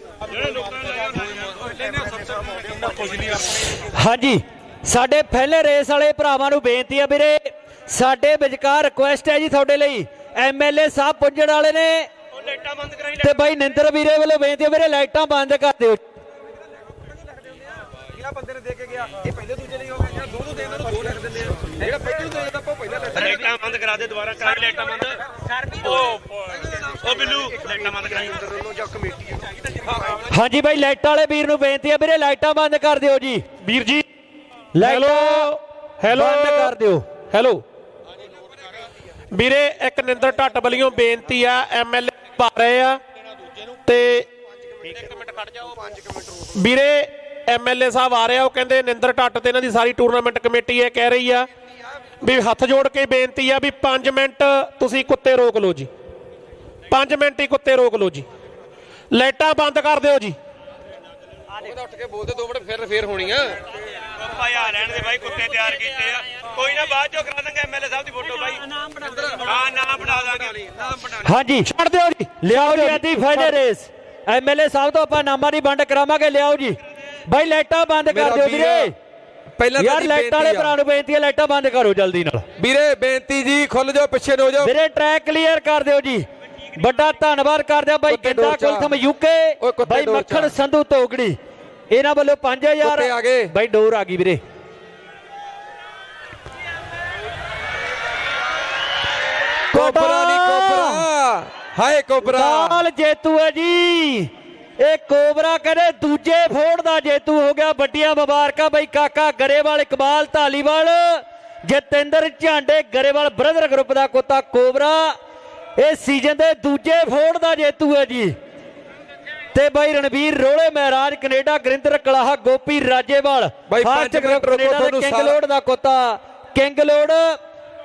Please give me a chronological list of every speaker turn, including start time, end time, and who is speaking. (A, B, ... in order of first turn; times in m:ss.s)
0:00.3-0:01.4 A
0:01.7-0:02.2 B
0:02.8-0:03.4 B
0:03.8-0:12.1 C
0:12.3-0:13.3 A
0:13.2-0:16.0 C
0:18.2-0:23.3 B
0:23.1-0:28.6 A
0:30.2-0:33.4 C
0:33.6-0:34.0 D
0:34.7-0:37.1 C
0:34.8-0:36.7 D
0:37.3-0:37.6 D
0:39.3-0:43.0 D
0:43.8-0:44.3 D
0:44.8-0:51.5 D
0:52.2-0:55.9 D
0:56.9-0:58.3 D
0:59.1-1:00.4 D
1:01.6-1:03.6 B
1:04.2-1:10.9 A
1:11.2-1:11.7 C
1:11.7-1:13.0 D
1:12.4-1:18.9 C
1:18.1-1:18.9 B
1:19.6-1:20.7 B
1:19.8-1:22.4 C
1:22.6-1:24.7 B
1:24.6-1:31.4 C
1:28.1-1:29.0 B
1:29.6-1:30.5 B
1:31.9-1:34.4 C
1:32.8-1:33.5 B
1:39.7-1:41.0 C
1:39.7-1:42.8 B
1:42.2-1:55.1 C
1:55.8-1:58.3 C
1:59.5-2:07.4 C
2:03.7-2:05.4 B